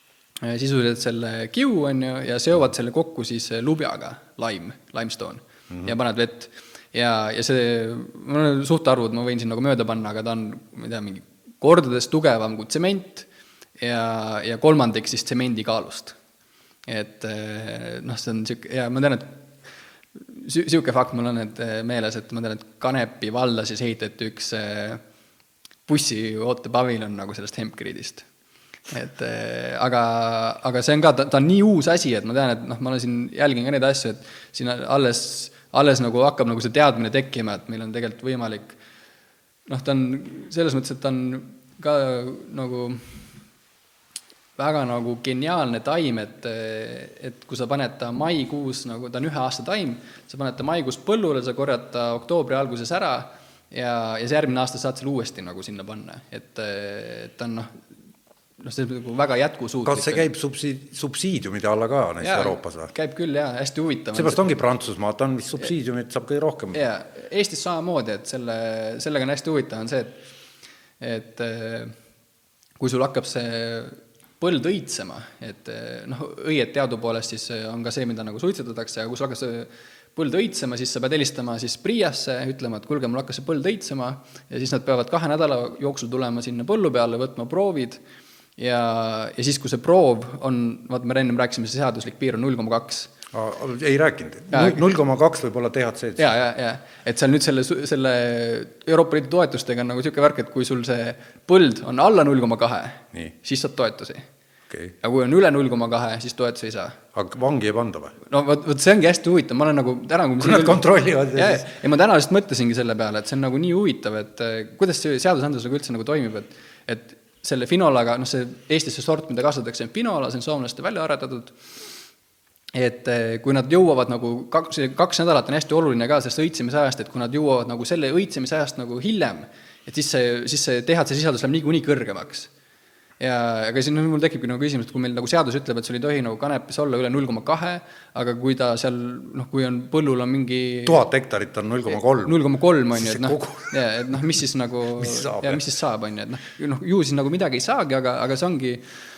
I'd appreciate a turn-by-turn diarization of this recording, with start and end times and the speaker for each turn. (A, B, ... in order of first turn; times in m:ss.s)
0:00.4-0:13.3 A
0:05.7-0:05.9 B
0:13.8-0:16.2 A
0:16.9-0:19.4 A
0:20.2-0:25.0 A
0:25.9-0:28.3 A
0:28.9-0:38.8 A
0:39.7-0:43.2 A
0:44.6-0:57.8 A
0:58.6-1:00.3 A
0:59.8-1:02.9 B
1:02.2-1:04.5 A
1:04.1-1:06.8 B
1:06.7-1:10.2 A
1:11.0-1:11.9 A
1:12.8-1:28.0 A
1:28.6-1:33.1 A
1:33.3-1:36.3 B
1:34.5-1:34.8 A
1:36.2-1:44.3 A
1:45.0-1:47.0 A
1:47.1-1:48.2 B
1:48.3-2:01.6 A
1:50.4-1:51.7 B
2:02.8-2:12.5 A
2:13.2-2:21.0 A
2:20.8-2:24.3 B
2:21.9-2:28.8 A
2:25.0-2:25.7 B